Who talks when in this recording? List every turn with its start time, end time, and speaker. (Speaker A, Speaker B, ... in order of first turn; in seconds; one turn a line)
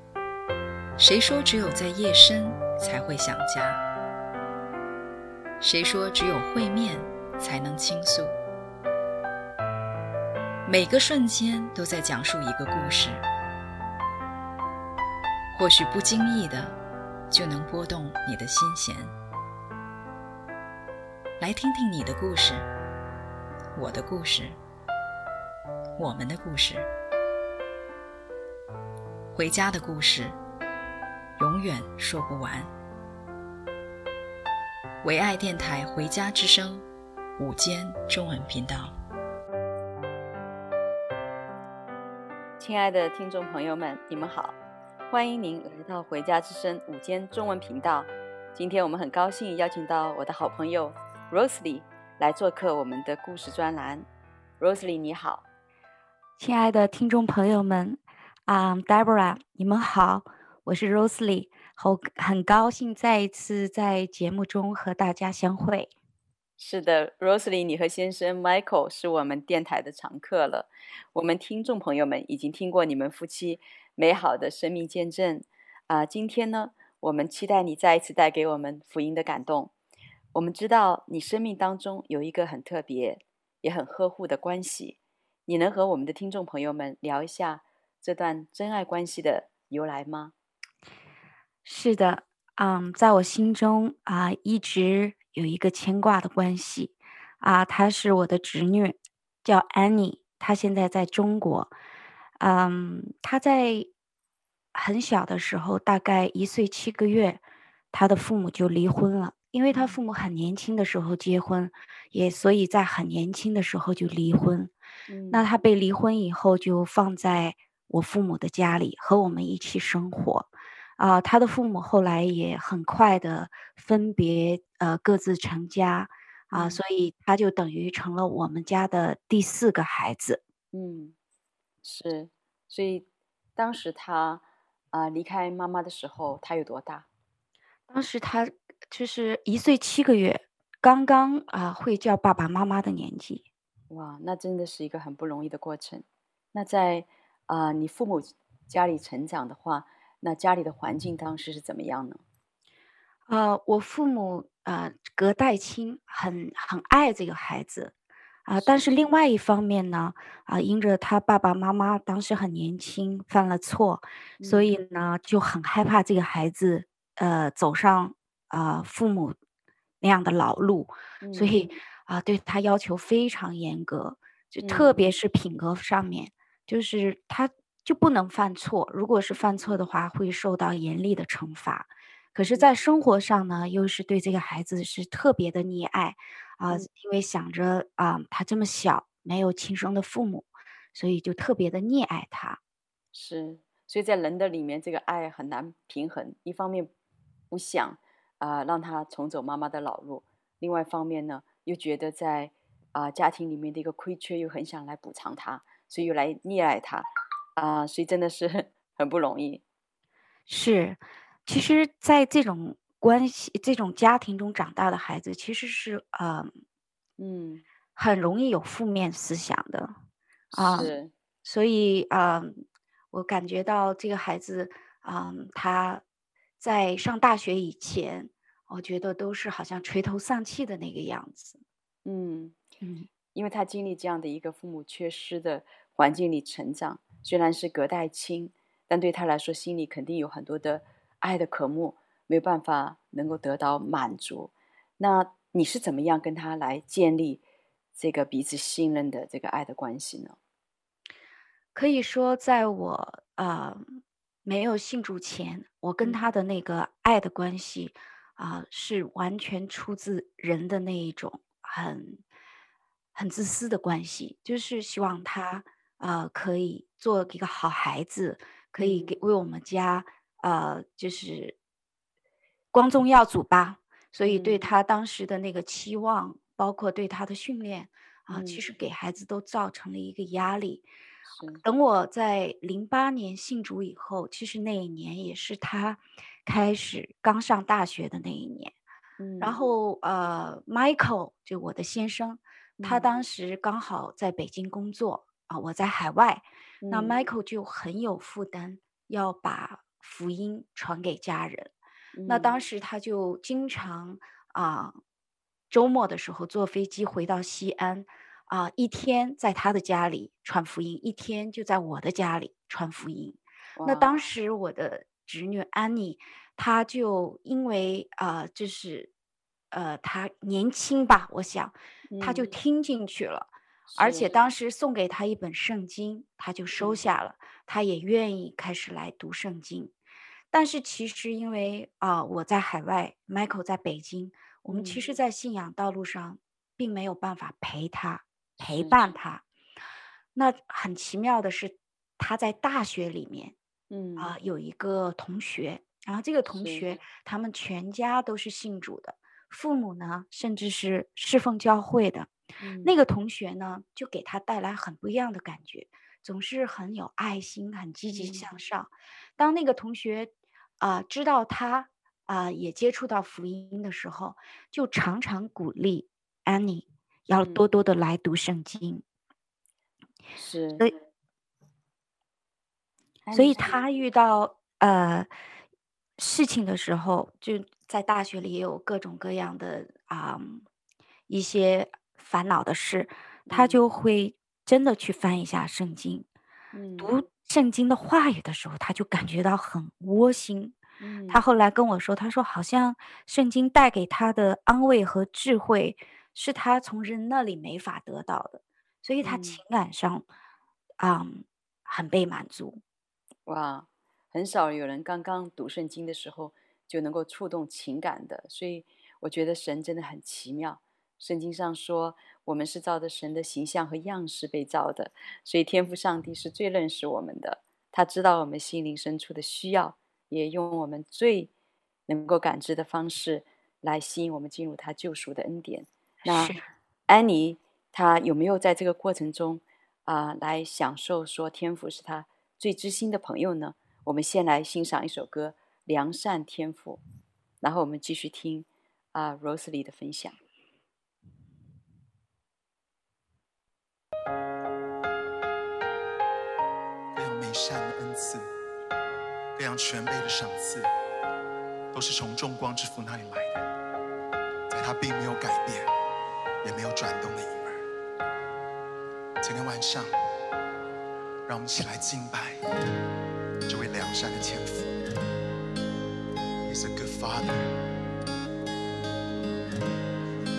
Speaker A: 1.0-3.8
Speaker A: 5.6-8.4
Speaker A: 10.7-13.2
Speaker A: 15.5-16.8
Speaker A: 17.3-19.1
Speaker A: 21.4-22.7
Speaker A: 23.8-24.6
Speaker A: 26.0-26.9
Speaker A: 29.3-30.4
Speaker A: 31.4-32.7
Speaker A: 35.0-39.0
Speaker B: 42.6-44.6
Speaker B: 45.1-54.1
Speaker B: 54.6-55.5
Speaker C: 56.4-65.9
Speaker B: 66.6-79.7
Speaker B: 80.3-90.3
Speaker C: 91.7-101.8
Speaker C: 102.4-103.9
Speaker C: 104.8-107.4
Speaker C: 107.9-114.7
Speaker B: 115.1-115.4
Speaker C: 115.3-130.4
Speaker B: 126.5-126.8
Speaker B: 130.7-131.2
Speaker B: 131.8-137.1
Speaker C: 137.9-143.5
Speaker B: 143.9-152.2
Speaker C: 153.3-157.9
Speaker C: 158.5-169.4
Speaker B: 158.6-158.8
Speaker B: 164.4-164.7
Speaker C: 170.0-192.6
Speaker B: 171.2-171.7
Speaker B: 174.6-175.1
Speaker B: 193.1-196.9
Speaker B: 197.5-209.6
Speaker C: 210.5-216.5
Speaker B: 217.2-217.7
Speaker C: 218.0-220.0
Speaker B: 220.5-221.1
Speaker C: 220.5-226.0
Speaker C: 226.6-231.6
Speaker B: 232.1-232.6
Speaker C: 232.8-233.1
Speaker B: 233.3-247.4
Speaker B: 248.0-250.4
Speaker C: 251.8-262.2
Speaker C: 263.1-271.6
Speaker B: 268.8-269.1
Speaker C: 272.7-280.9
Speaker B: 274.2-274.7
Speaker B: 278.3-278.6
Speaker B: 281.3-281.6
Speaker C: 281.6-288.7
Speaker B: 289.2-289.6
Speaker C: 289.4-301.7
Speaker B: 292.8-293.1
Speaker B: 296.8-297.2
Speaker B: 302.1-302.5
Speaker C: 302.3-305.0
Speaker C: 305.7-319.1
Speaker B: 313.8-314.2
Speaker C: 319.7-329.9
Speaker B: 322.1-322.5
Speaker B: 323.9-324.4
Speaker C: 330.5-339.4
Speaker B: 334.7-335.0
Speaker B: 338.6-339.0
Speaker C: 340.4-343.6
Speaker B: 343.9-344.3
Speaker C: 344.2-352.3
Speaker B: 346.5-347.0
Speaker B: 352.6-352.9
Speaker C: 352.8-369.0
Speaker B: 358.1-358.5
Speaker B: 367.4-367.7
Speaker B: 370.4-370.9
Speaker B: 373.2-373.7
Speaker C: 373.3-375.3
Speaker C: 376.2-380.6
Speaker C: 381.3-386.3
Speaker B: 383.5-383.8
Speaker B: 386.7-387.1
Speaker C: 387.0-390.8
Speaker B: 391.0-391.4
Speaker C: 391.3-400.3
Speaker B: 399.2-399.6
Speaker C: 401.0-402.8
Speaker B: 403.5-421.5
Speaker B: 422.1-426.6
Speaker C: 426.2-426.7
Speaker B: 427.1-437.0
Speaker B: 437.6-440.4
Speaker D: 447.1-448.5
Speaker D: 449.6-450.9
Speaker D: 451.9-453.7
Speaker D: 454.7-455.9
Speaker D: 456.6-457.8
Speaker D: 459.4-460.1
Speaker D: 461.5-462.6
Speaker D: 463.7-464.9
Speaker D: 466.7-467.8